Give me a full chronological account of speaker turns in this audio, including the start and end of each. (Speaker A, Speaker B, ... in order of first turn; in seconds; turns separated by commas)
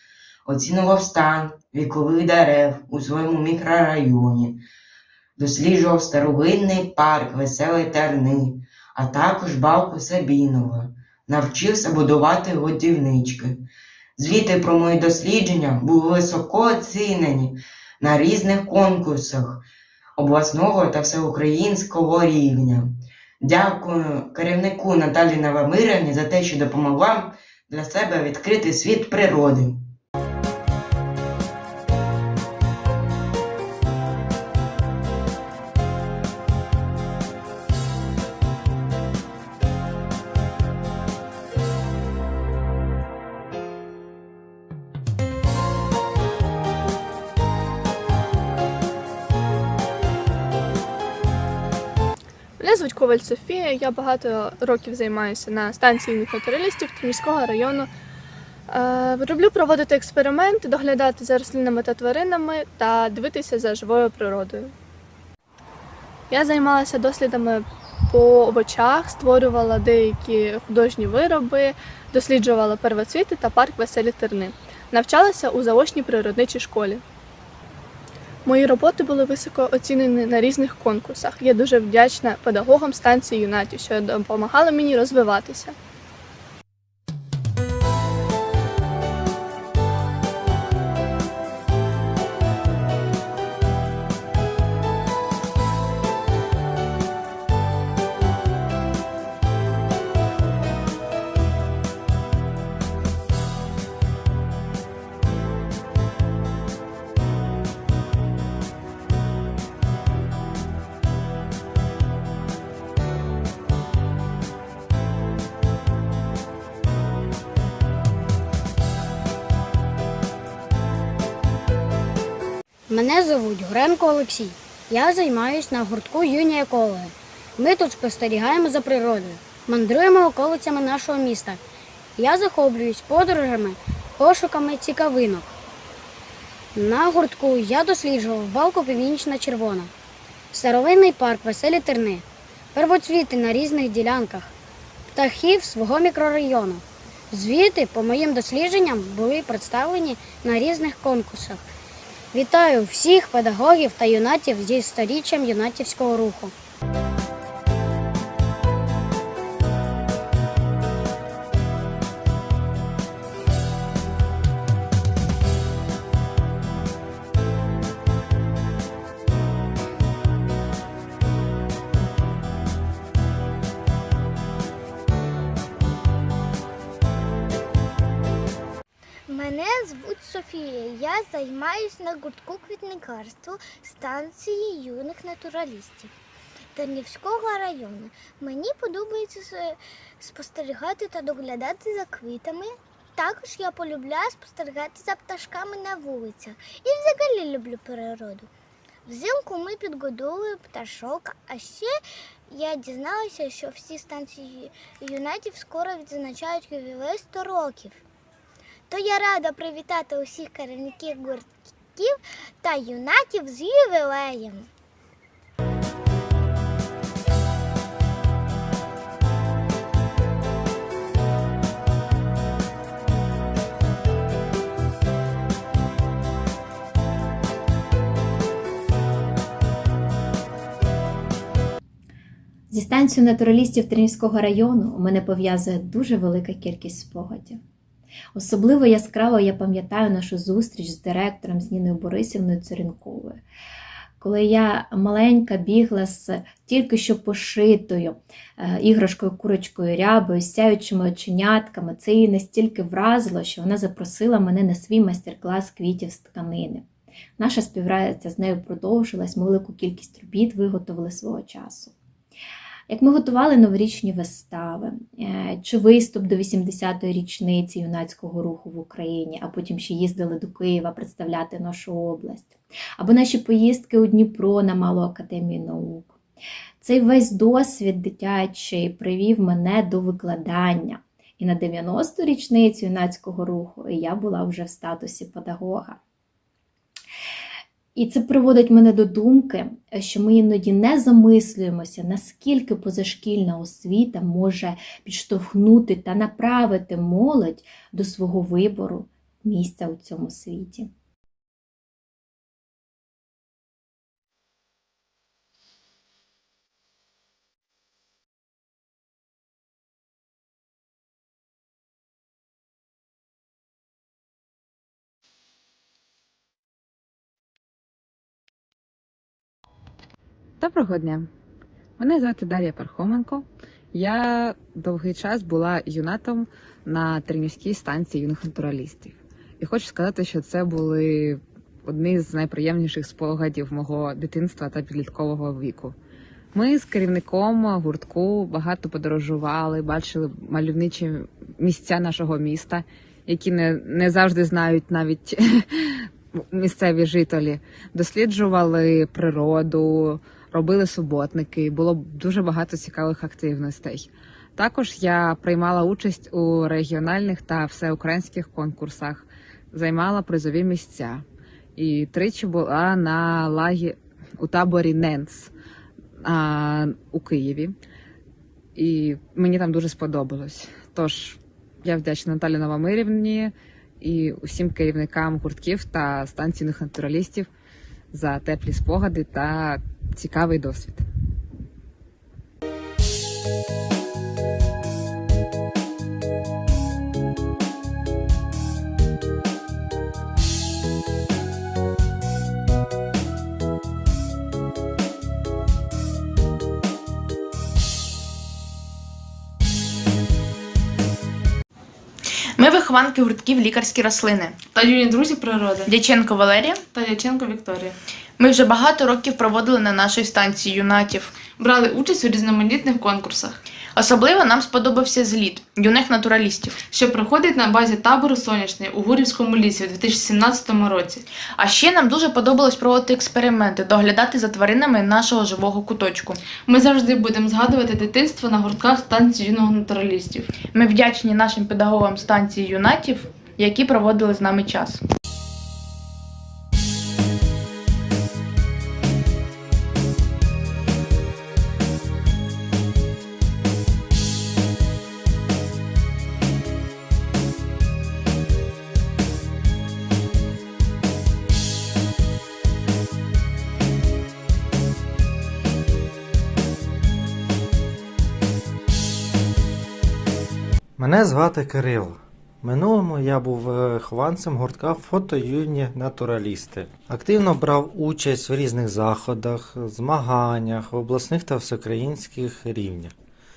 Speaker A: 0.5-4.6, Speaker A: 5.4-13.6, Speaker A: 14.2-19.6, Speaker A: 20.2-22.9, Speaker A: 23.4-29.7, Speaker B: 52.6-57.9, Speaker B: 58.7-64.7, Speaker B: 66.3-77.0, Speaker B: 78.5-85.7, Speaker C: 122.9-131.6, Speaker C: 132.2-135.5, Speaker C: 136.7-139.9, Speaker C: 140.5-144.5, Speaker C: 145.1-151.6, Speaker C: 152.3-156.5, Speaker D: 179.3-186.1, Speaker D: 186.7-198.5, Speaker D: 199.1-201.9, Speaker D: 202.5-208.0, Speaker D: 208.9-214.6, Speaker E: 232.7-237.6, Speaker E: 238.3-243.4, Speaker E: 244.2-256.9, Speaker E: 257.4-261.9, Speaker E: 262.9-276.2, Speaker E: 276.8-286.0, Speaker E: 287.9-300.9, Speaker F: 320.6-321.3, Speaker F: 322.0-335.9, Speaker F: 336.5-361.2, Speaker F: 361.8-365.5, Speaker F: 366.2-367.8, Speaker F: 368.8-377.5, Speaker F: 378.1-381.0, Speaker G: 402.6-404.7, Speaker H: 404.7-405.9, Speaker G: 405.8-406.8, Speaker H: 406.9-408.0, Speaker G: 408.4-411.4, Speaker H: 411.6-413.6, Speaker G: 413.9-416.8, Speaker H: 416.9-421.2, Speaker G: 421.6-426.4, Speaker H: 426.6-430.5, Speaker G: 430.6-435.0, Speaker I: 461.0-473.1